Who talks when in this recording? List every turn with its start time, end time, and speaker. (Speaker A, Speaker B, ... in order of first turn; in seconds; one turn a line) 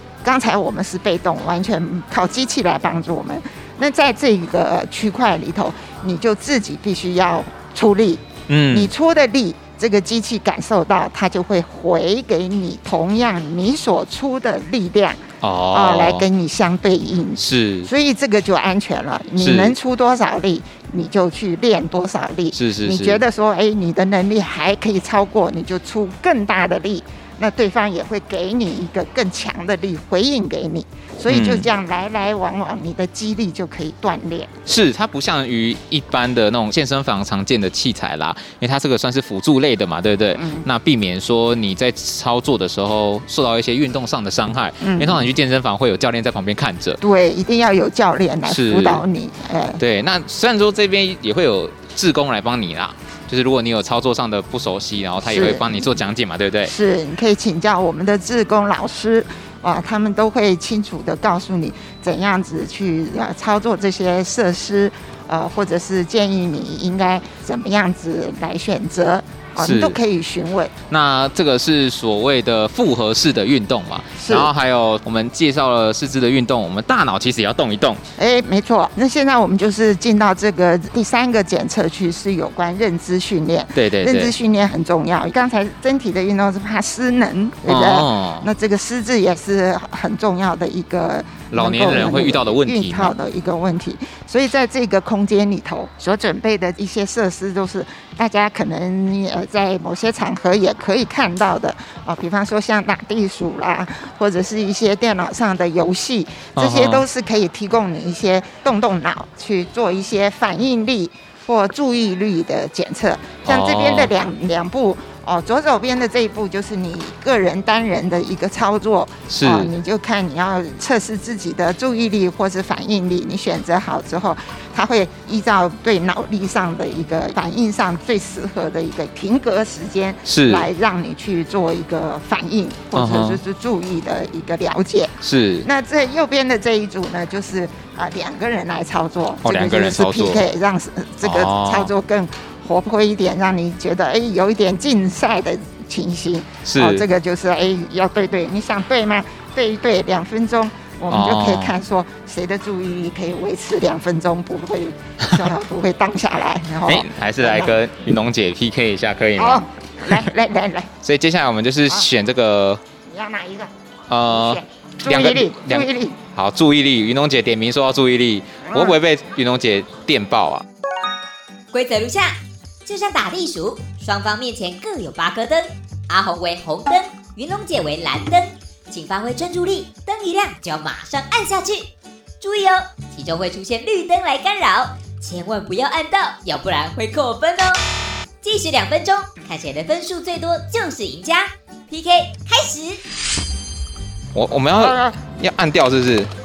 Speaker A: 0.2-34.5
Speaker B: 8.5-8.9
Speaker B: 15.4-16.2
Speaker B: 17.4-17.9
Speaker B: 19.4-19.8
Speaker B: 22.5-23.2
Speaker B: 31.3-31.7
Speaker B: 34.6-47.0
Speaker A: 40.3-40.6
Speaker A: 44.8-45.3
Speaker A: 47.0-49.8
Speaker B: 48.5-49.0
Speaker B: 49.8-56.7
Speaker A: 55.2-55.9
Speaker A: 56.6-70.7
Speaker B: 69.6-70.0
Speaker B: 70.9-78.0
Speaker A: 74.2-74.5
Speaker A: 78.2-157.7
Speaker B: 83.8-84.3
Speaker B: 87.7-88.5
Speaker B: 91.5-93.1
Speaker B: 106.5-107.0
Speaker B: 113.4-114.1
Speaker B: 119.3-119.7
Speaker B: 130.2-130.7
Speaker B: 132.9-133.4
Speaker B: 135.2-135.7
Speaker B: 139.4-140.4
Speaker B: 141.2-141.9
Speaker B: 146.6-147.0
Speaker B: 151.1-151.8
Speaker B: 156.8-160.2
Speaker A: 159.4-160.9
Speaker B: 161.0-162.8
Speaker A: 163.0-163.7
Speaker B: 164.1-170.6
Speaker A: 164.2-166.2
Speaker A: 168.7-169.0
Speaker C: 171.7-187.8
Speaker C: 188.4-193.0
Speaker B: 194.3-196.3
Speaker A: 194.7-195.2